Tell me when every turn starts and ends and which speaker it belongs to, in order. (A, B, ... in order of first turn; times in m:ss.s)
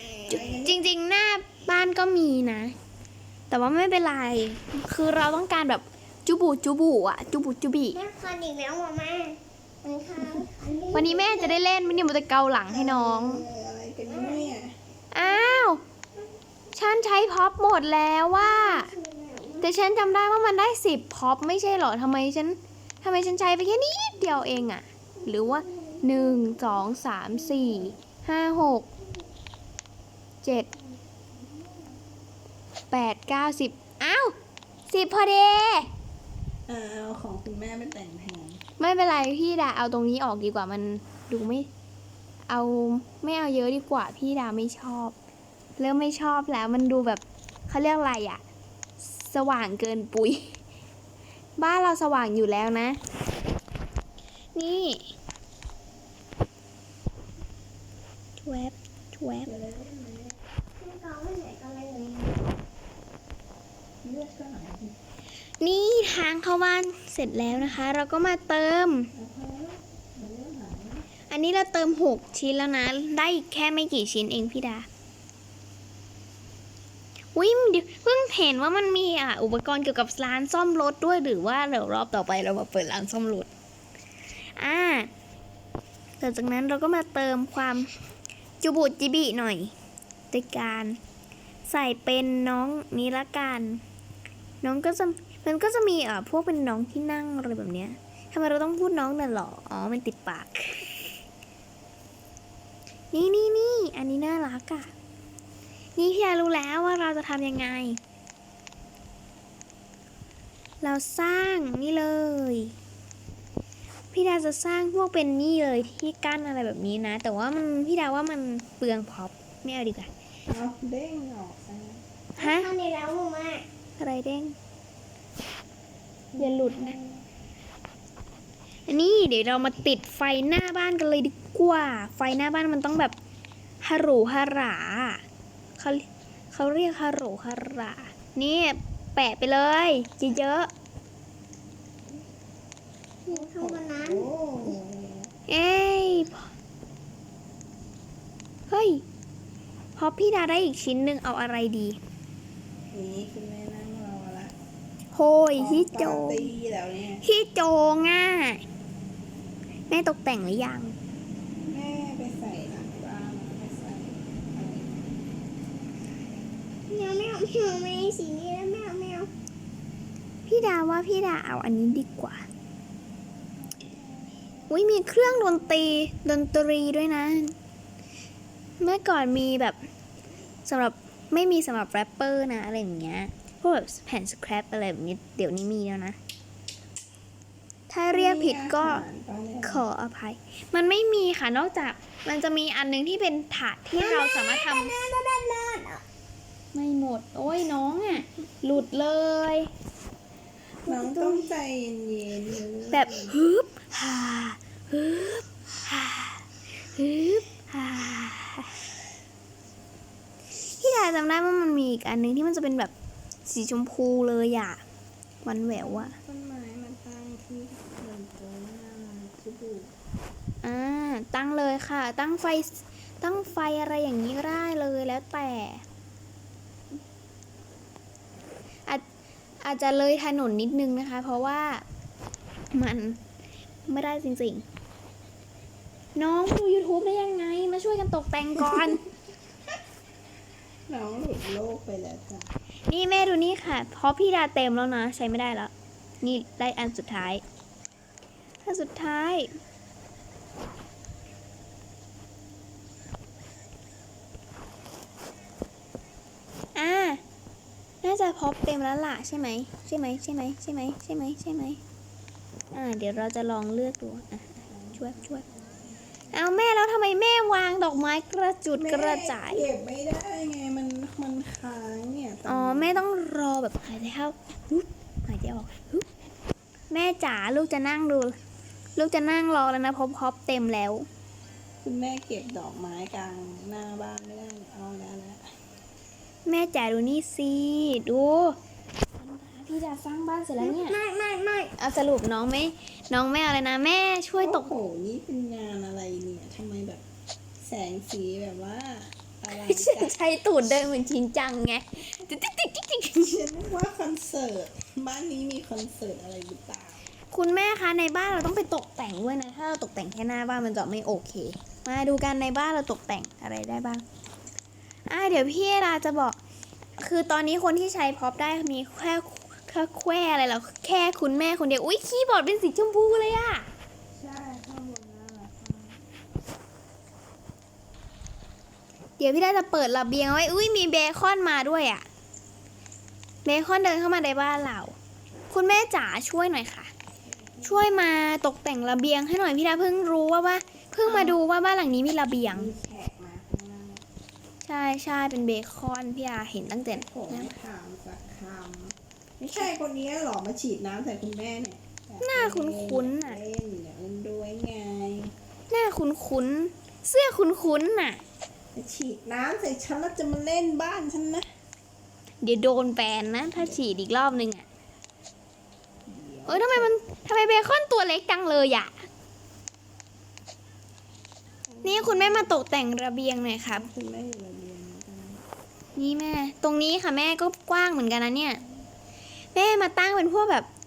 0:00.3-0:00.8 A
0:00.6-0:02.7 B
0:03.5-0:08.0 B
0:07.9-0:11.6 C
0:10.9-0:13.4 B
0:12.7-0:14.7 A
0:14.1-0:14.6 C
0:15.1-0:15.8 B
0:15.2-0:15.8 C
0:16.7-0:18.9 B
0:18.4-0:19.7 C
0:19.6-0:28.9 B
0:25.2-0:26.8 C
0:30.4-0:30.7 B
0:32.9-0:34.3 B
0:34.9-0:35.9 B
0:36.7-0:38.6 A
0:38.8-0:41.7 B
0:42.5-0:45.1 B
0:45.8-0:48.4 B
0:49.0-0:50.6 B
0:51.6-0:53.0 B
0:54.5-0:55.1 B
0:58.4-0:59.5 B
0:59.4-1:00.4 A
1:00.8-1:02.6 C
1:04.0-1:04.9 A
1:05.6-1:09.1 B
1:09.1-1:11.0 A
1:11.3-1:14.9 B
1:17.3-1:23.5 B
1:24.6-1:25.1 B
1:26.2-1:27.9 B
1:28.6-1:29.7 B
1:30.3-1:31.0 B
1:31.6-1:33.8 B
1:34.6-1:41.2 B
1:43.1-1:44.9 B
1:46.0-1:48.0 B
1:50.8-1:52.7 B
1:54.1-2:00.1 B
2:00.5-2:02.0 A
2:02.4-2:03.6 C
2:02.4-2:02.7 B
2:04.0-2:04.5 B
2:06.3-2:07.2 A
2:06.4-2:07.0 B
2:08.9-2:13.1 B
2:13.8-2:15.2 B
2:15.8-2:20.7 B
2:23.2-2:24.3 C
2:23.3-2:25.3 A
2:25.5-2:26.5 B
2:28.7-2:29.0 B
2:30.0-2:32.0 B
2:32.9-2:34.5 A
2:35.1-2:36.5 B
2:35.6-2:37.2 A
2:37.2-2:38.6 B
2:39.9-2:40.9 B
2:41.6-2:45.2 A
2:46.9-2:49.3 C
2:50.4-2:52.4 B
2:53.6-2:56.0 A
2:54.7-2:57.6 B
2:58.8-2:59.8 B
3:00.6-3:06.2 B
3:07.9-3:09.0 B
3:08.1-3:09.8 A
3:09.6-3:14.9 B
3:14.0-3:16.0 C
3:16.7-3:19.7 B
3:20.8-3:21.5 B
3:20.8-3:23.3 A
3:22.9-3:28.8 B
3:30.7-3:32.9 B
3:33.4-3:34.8 B
3:35.4-3:36.2 B
3:35.7-3:39.9 A
3:40.6-3:45.8 B
3:49.6-3:51.8 B
3:52.7-3:53.2 B
3:53.9-3:54.6 B
3:56.1-3:59.0 B
4:00.9-4:02.5 A
4:02.9-4:07.4 B
4:08.6-4:09.5 B
4:16.7-4:17.2 B
4:18.0-4:21.8 B
4:22.7-4:25.4 B
4:24.7-4:26.4 A
4:26.3-4:29.6 B
4:28.8-4:33.0 A
4:32.4-4:36.1 B
4:36.9-4:38.4 B
4:39.0-4:41.1 B
4:41.8-4:45.5 A
4:46.4-4:48.6 B
4:49.2-4:51.0 B
4:50.6-4:51.7 C
4:51.8-4:54.7 B
4:54.4-4:57.0 A
4:57.6-5:00.1 A
4:59.5-5:03.5 B
5:03.2-5:07.0 A
5:07.3-5:14.0 B
5:15.1-5:16.4 B
5:17.0-5:23.7 B
5:24.2-5:26.0 A
5:29.2-5:32.0 B
5:33.4-5:34.9 B
5:35.5-5:36.9 B
5:37.2-5:38.0 A
5:37.6-5:42.7 B
5:41.0-5:41.4 A
5:42.5-5:44.0 A
5:44.6-5:47.5 B
5:47.0-5:55.3 A
5:52.2-5:53.4 B
5:55.7-5:58.2 B
5:58.7-6:01.5 A
6:02.4-6:04.6 B
6:06.0-6:06.9 A
6:06.5-6:09.0 B
6:11.7-6:12.6 A
6:11.8-6:13.8 B
6:13.6-6:15.4 A
6:15.9-6:18.6 B
6:19.5-6:20.7 B